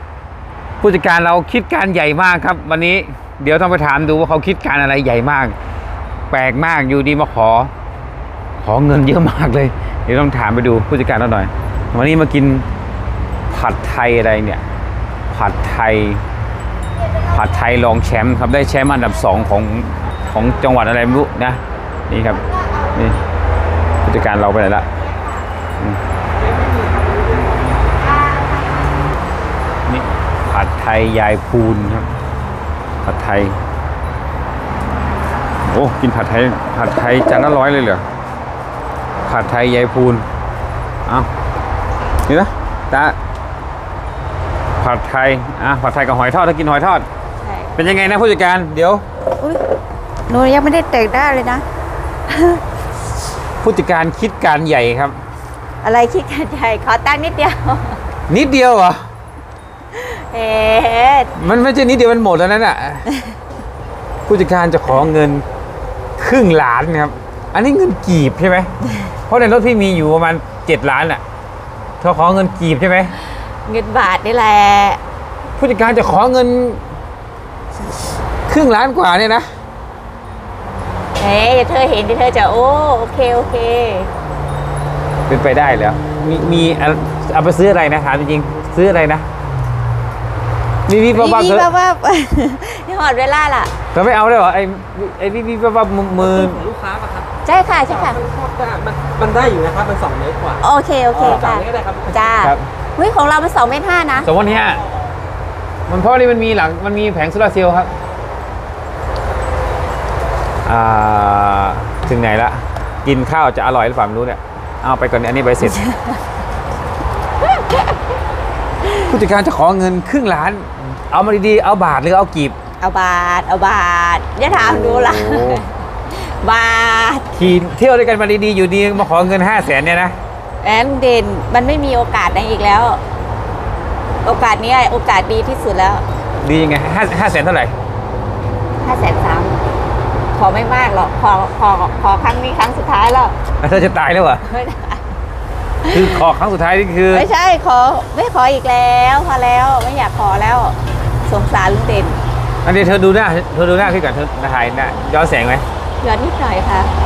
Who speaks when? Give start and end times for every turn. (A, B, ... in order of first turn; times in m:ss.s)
0:00.8-0:05.6 A
0:06.3-0:07.7 A
0:08.6-0:12.7 A
0:13.5-0:14.6 A
0:15.3-0:16.2 A
0:17.3-0:22.4 A
0:22.5-0:23.0 B
0:24.0-0:24.9 A
0:25.1-0:25.4 B
0:26.4-0:27.6 C
0:28.0-0:29.1 B
0:29.9-0:32.1 A
0:33.0-0:33.6 A
0:35.7-0:38.0 A
0:39.3-0:40.2 A
0:42.3-0:43.2 A
0:44.8-0:47.1 A
0:47.4-0:47.7 B
0:47.8-0:49.0 A
0:50.3-0:51.6 B
0:52.3-0:52.6 B
0:53.6-0:55.2 A
0:55.8-0:58.0 B
0:58.3-0:59.0 A
0:59.9-1:01.3 B
1:01.4-1:03.1 A
1:04.3-1:05.4 A
1:06.2-1:08.7 A
1:09.3-1:11.2 A
1:12.0-1:13.1 A
1:13.7-1:15.0 B
1:15.6-1:16.8 A
1:18.5-1:19.5 A
1:21.2-1:24.1 B
1:25.3-1:29.3 A
1:30.9-1:31.7 A
1:31.1-1:33.7 B
1:33.9-1:36.7 A
1:36.2-1:37.3 C
1:37.5-1:38.2 B
1:37.9-1:42.4 C
1:40.6-1:44.3 B
1:42.4-1:42.7 A
1:44.2-1:44.8 A
1:45.9-1:47.9 A
1:50.6-1:55.8 A
1:55.8-1:56.1 B
1:57.4-1:57.8 B
1:59.0-2:02.6 A
2:02.8-2:07.3 B
2:04.5-2:05.6 A
2:07.4-2:10.2 A
2:10.6-2:13.0 B
2:14.2-2:16.0 B
2:16.4-2:17.7 A
2:18.8-2:19.6 B
2:20.4-2:23.4 B
2:23.6-2:24.4 A
2:24.5-2:25.0 B
2:25.8-2:26.2 B
2:25.9-2:27.3 A
2:27.1-2:30.8 B
2:31.3-2:32.2 B
2:32.6-2:35.6 A
2:36.0-2:36.9 B